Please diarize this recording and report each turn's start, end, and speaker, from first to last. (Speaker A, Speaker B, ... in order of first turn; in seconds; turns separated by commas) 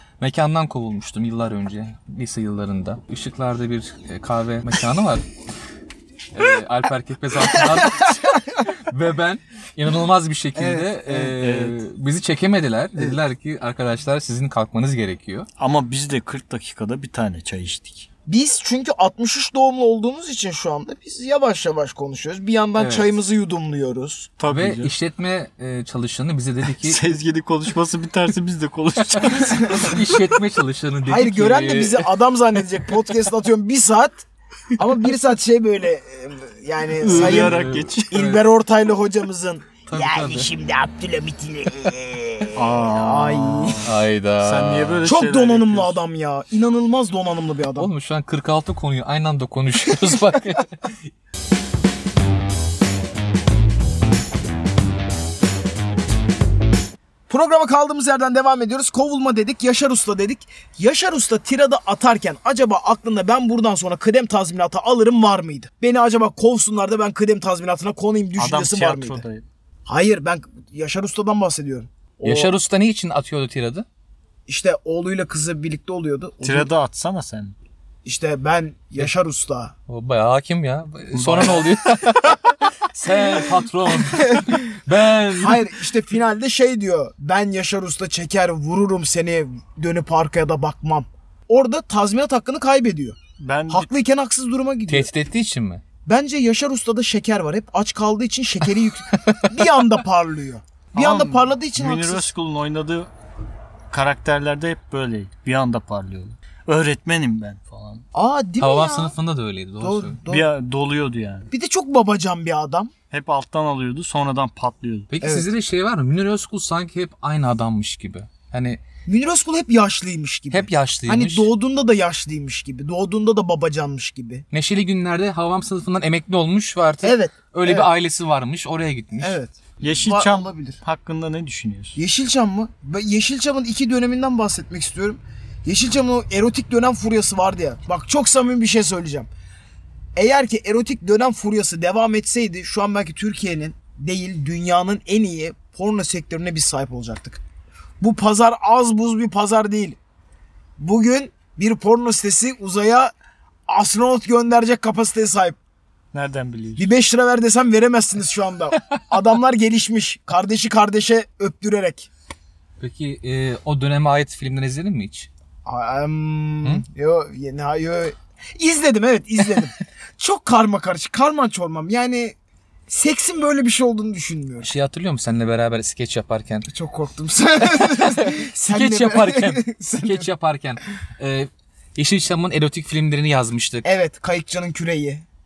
Speaker A: 0.2-5.2, Speaker A: 6.3-15.5, Speaker B: 7.6-8.5, Speaker B: 10.5-11.3, Speaker C: 11.4-11.8, Speaker C: 15.6-18.1, Speaker B: 18.3-24.3, Speaker A: 22.8-23.1, Speaker C: 24.4-24.9, Speaker A: 24.5-27.0, Speaker C: 26.8-29.9, Speaker A: 29.1-32.1, Speaker B: 29.5-29.9, Speaker B: 31.1-43.8, Speaker C: 37.0-38.2, Speaker A: 37.1-38.4, Speaker A: 39.9-40.5, Speaker C: 42.5-46.0, Speaker A: 43.8-45.0, Speaker B: 45.0-47.9, Speaker A: 47.8-51.1, Speaker B: 57.3-69.2, Speaker C: 68.4-69.5, Speaker B: 69.9-72.5, Speaker A: 72.2-73.8, Speaker B: 74.5-76.7, Speaker C: 76.4-77.5, Speaker B: 78.0-79.7, Speaker A: 79.9-85.6, Speaker C: 81.1-81.7, Speaker B: 84.1-84.7, Speaker B: 85.3-93.2, Speaker C: 93.4-93.9, Speaker B: 93.7-95.1, Speaker A: 94.9-95.8, Speaker B: 96.0-102.3, Speaker A: 99.1-99.6, Speaker C: 100.9-103.1, Speaker C: 103.9-108.0, Speaker B: 108.1-109.1, Speaker A: 108.6-110.2, Speaker B: 109.8-110.5, Speaker C: 110.3-111.5, Speaker B: 111.5-112.9, Speaker C: 113.1-115.1, Speaker A: 115.1-118.8, Speaker B: 115.2-115.5, Speaker B: 119.0-124.4, Speaker A: 120.5-121.5, Speaker A: 124.5-129.4, Speaker B: 127.0-127.9, Speaker B: 129.2-130.8, Speaker C: 129.8-132.0, Speaker B: 131.9-139.3, Speaker B: 140.2-147.4, Speaker B: 148.0-150.0, Speaker B: 150.8-153.1, Speaker B: 153.7-155.6, Speaker C: 156.1-156.9, Speaker B: 156.8-162.1, Speaker A: 162.8-165.3, Speaker B: 165.6-172.3, Speaker B: 172.9-174.7, Speaker A: 174.6-176.7, Speaker B: 176.7-180.3, Speaker A: 177.6-183.9, Speaker B: 183.8-185.2